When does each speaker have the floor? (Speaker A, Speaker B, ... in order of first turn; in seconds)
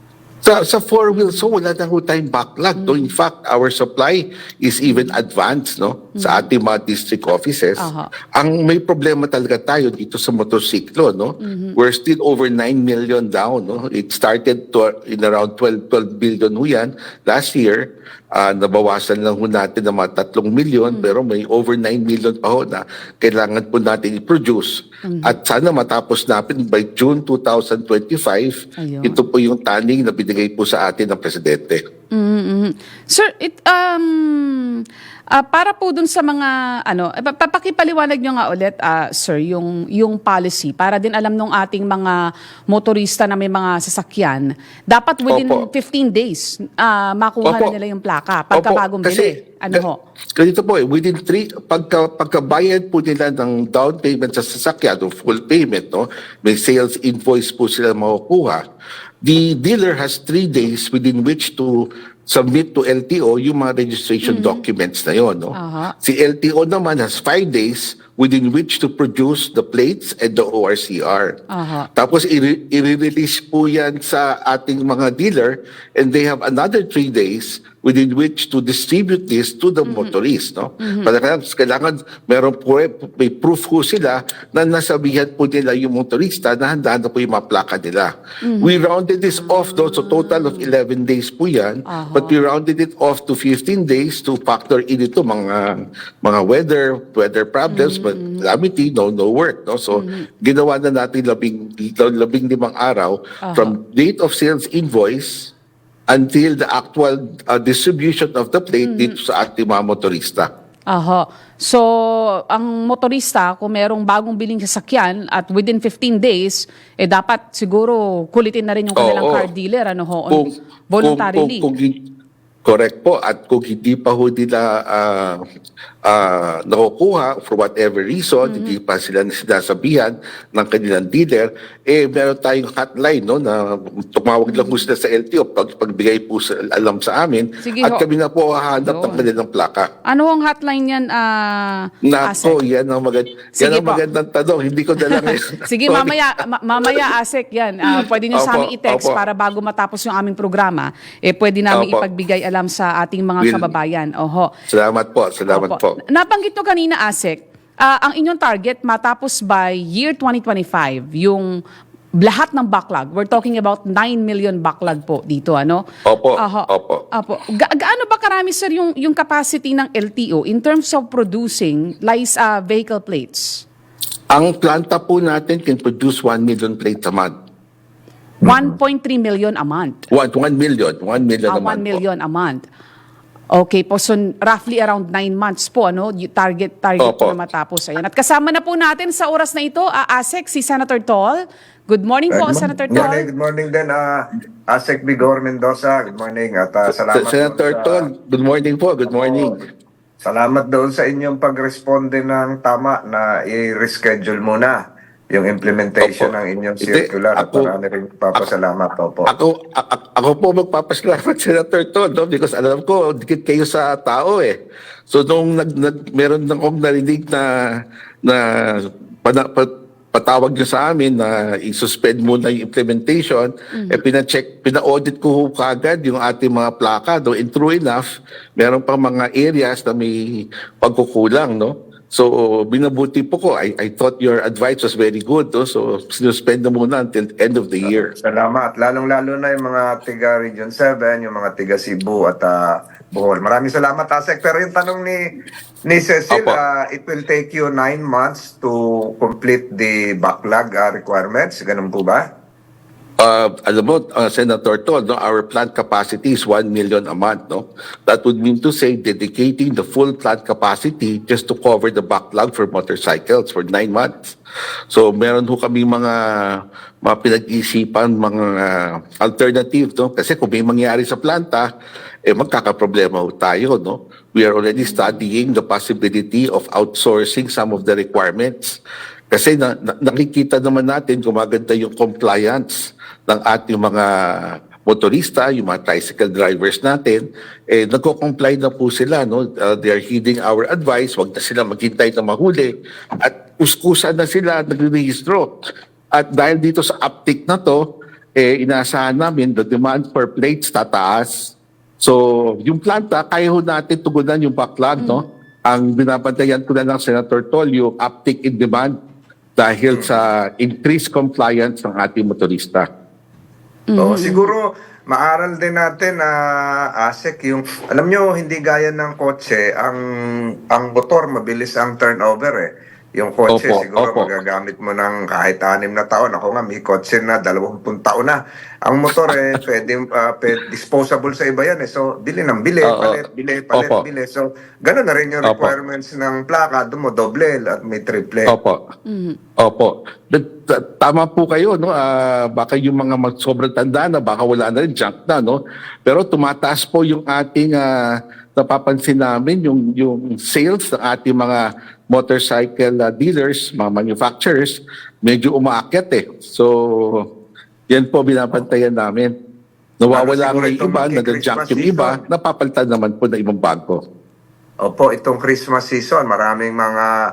Speaker A: 0.4-31.8, 45.3-45.7, 47.4-47.7, 48.5-49.8, 50.4-58.6, 59.2-71.3, 72.0-105.5, 106.1-110.5, 119.0-119.5, 120.3-122.0, 122.6-125.4, 126.0-139.9, 142.0-146.2, 147.9-149.2, 151.7-152.1, 153.4-153.7, 154.7-156.0, 166.0-167.0, 174.3-177.3, 180.1-182.0, 187.0-187.3, 196.9-199.6, 206.0-207.7, 209.2-214.5, 215.1-217.5, 218.2-228.0, 228.6-238.1, 246.3-246.6, 253.2-264.4, 264.9-271.7, 272.3-278.8, 279.3-295.5, 296.1-297.8, 298.4-308.9, 309.6-312.9, 323.5-324.3, 329.1-329.6, 332.8-333.2, 333.7-334.0, 335.4-335.7, 338.5-338.8, 339.6-347.9, 348.6-357.2, 357.9-359.3, 360.0-364.0
Speaker B: 1.1-1.4, 2.8-3.1, 4.8-5.2, 6.2-6.5, 7.8-8.1, 11.4-11.8, 20.9-21.1, 25.0-25.4, 28.8-29.2, 32.1-42.2, 42.7-50.0, 64.2-64.6, 65.5-65.9, 71.5-71.9, 79.9-80.1, 80.8-81.1, 88.4-88.7, 89.3-90.7, 91.9-92.3, 97.7-98.5, 99.9-100.3, 103.5-103.7, 108.8-109.1, 110.9-121.7, 128.4-128.8, 134.5-134.8, 137.6-138.0, 138.8-139.2, 140.1-142.6, 143.6-144.0, 145.0-154.5, 155.5-161.5, 162.2-165.8, 166.4-173.6, 178.4-180.1, 181.5-182.6, 183.5-193.3, 223.7-224.0, 274.8-275.2, 305.0-305.2, 313.9-314.5, 339.1-339.4
Speaker C: 192.3-198.1, 199.1-199.7, 200.2-204.8, 205.3-209.3, 237.9-245.2, 245.9-252.2, 314.0-316.4, 317.0-320.0, 320.7-338.5, 360.1-362.2, 364.8-367.1